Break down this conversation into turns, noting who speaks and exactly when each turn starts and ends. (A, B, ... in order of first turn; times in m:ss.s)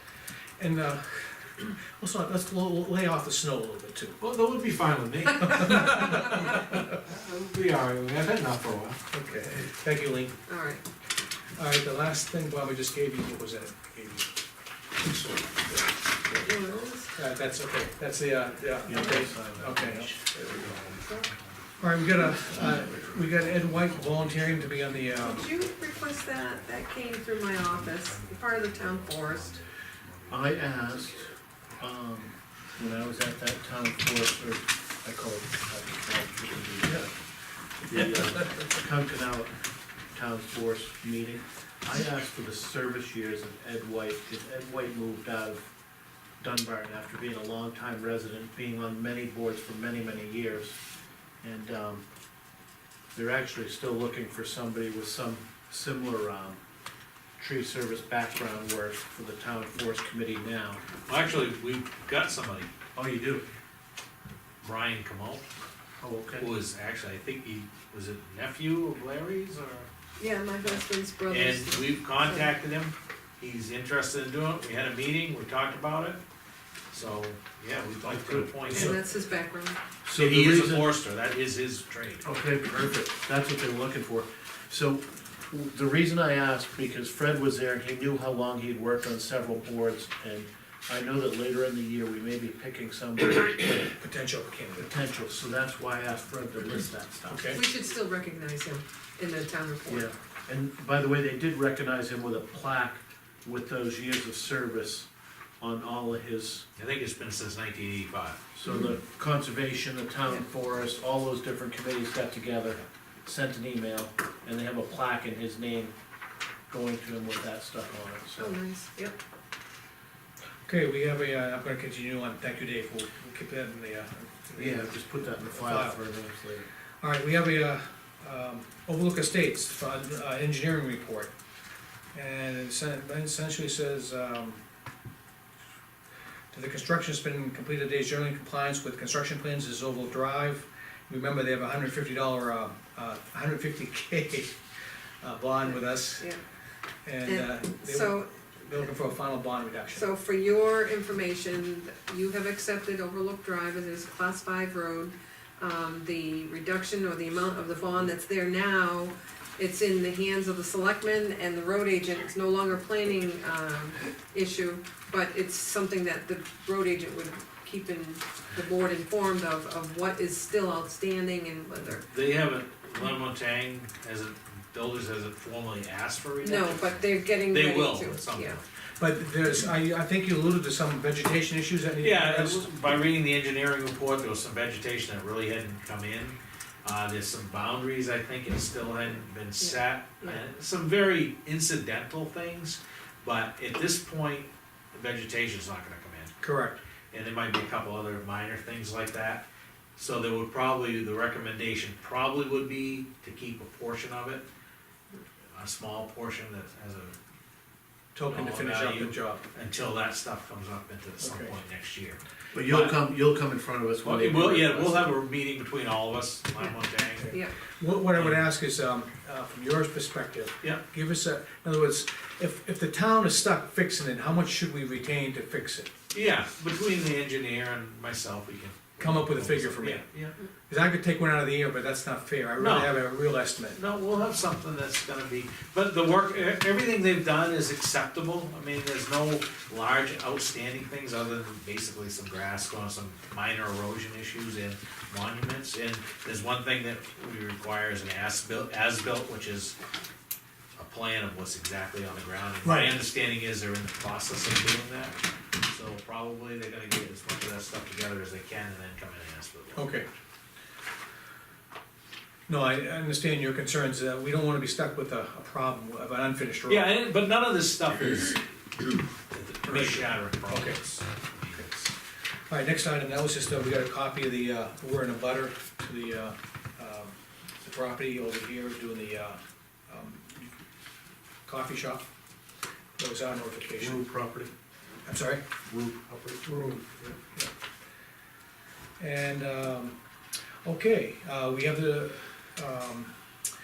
0:00.6-0:04.2 A
0:04.2-0:09.0 B
0:05.5-0:06.7 A
0:09.1-0:10.4 A
0:10.5-0:10.8 C
0:11.6-0:14.3 A
0:15.1-0:16.5 A
0:16.4-0:17.1 C
0:17.1-0:20.1 A
0:18.9-0:19.8 D
0:18.9-0:31.3 E
0:21.0-0:21.3 C
0:21.8-0:25.4 A
0:25.2-0:29.6 C
0:30.3-0:31.3 D
0:31.8-0:37.2 D
0:37.9-0:39.6 D
0:40.1-0:45.6 D
0:46.4-0:50.8 D
0:51.4-0:52.0 D
0:53.2-0:56.6 D
0:57.4-1:00.8 D
1:01.1-1:02.7 B
1:03.0-1:03.4 D
1:04.6-1:05.4 B
1:06.0-1:06.5 D
1:06.4-1:09.9 B
1:10.2-1:12.5 C
1:10.6-1:16.2 B
1:16.9-1:19.0 B
1:18.0-1:18.9 D
1:18.7-1:19.8 C
1:20.0-1:21.0 D
1:20.2-1:22.3 B
1:22.2-1:33.9 D
1:34.0-1:34.9 A
1:34.8-1:37.6 D
1:37.3-1:37.6 A
1:37.5-1:40.1 C
1:39.9-1:45.1 D
1:45.6-1:46.7 D
1:46.8-1:48.4 B
1:48.6-1:55.9 D
1:48.7-1:48.9 C
1:56.7-1:58.6 D
1:58.4-1:59.2 C
2:00.7-2:06.0 A
2:04.6-2:06.7 D
2:07.0-2:11.3 A
2:12.1-2:14.6 A
2:16.5-2:24.6 A
2:25.2-2:26.3 A
2:25.7-2:26.4 C
2:27.1-2:30.1 A
2:27.2-2:28.9 C
2:29.9-2:52.1 C
2:51.9-2:58.6 B
2:56.4-2:58.6 C
2:59.0-3:02.7 A
3:02.0-3:16.3 B
3:09.6-3:10.4 C
3:16.4-3:16.8 A
3:17.1-3:19.4 B
3:20.0-3:24.4 B
3:25.5-3:27.2 B
3:28.2-3:29.4 A
3:28.3-3:33.0 B
3:31.2-3:31.5 A
3:32.5-3:35.2 D
3:34.0-3:37.4 B
3:37.2-3:45.9 A
3:37.3-3:37.6 C
3:38.1-3:38.4 B
3:46.1-3:50.4 B
3:49.0-3:50.1 A
3:50.7-3:53.8 A
3:52.6-3:53.2 B
3:53.7-4:09.8 B
4:10.8-4:20.0 B
4:12.6-4:13.0 A
4:19.8-4:20.1 A
4:22.5-4:27.0 A
4:26.7-4:28.4 B
4:29.3-4:31.7 B
4:29.6-4:30.8 A
4:32.5-4:40.5 A
4:41.5-4:42.1 A
4:43.0-4:44.0 A
4:43.8-4:44.5 D
4:45.1-4:45.4 A
4:45.7-4:47.1 D
4:49.0-4:50.0 A
4:50.6-4:53.1 A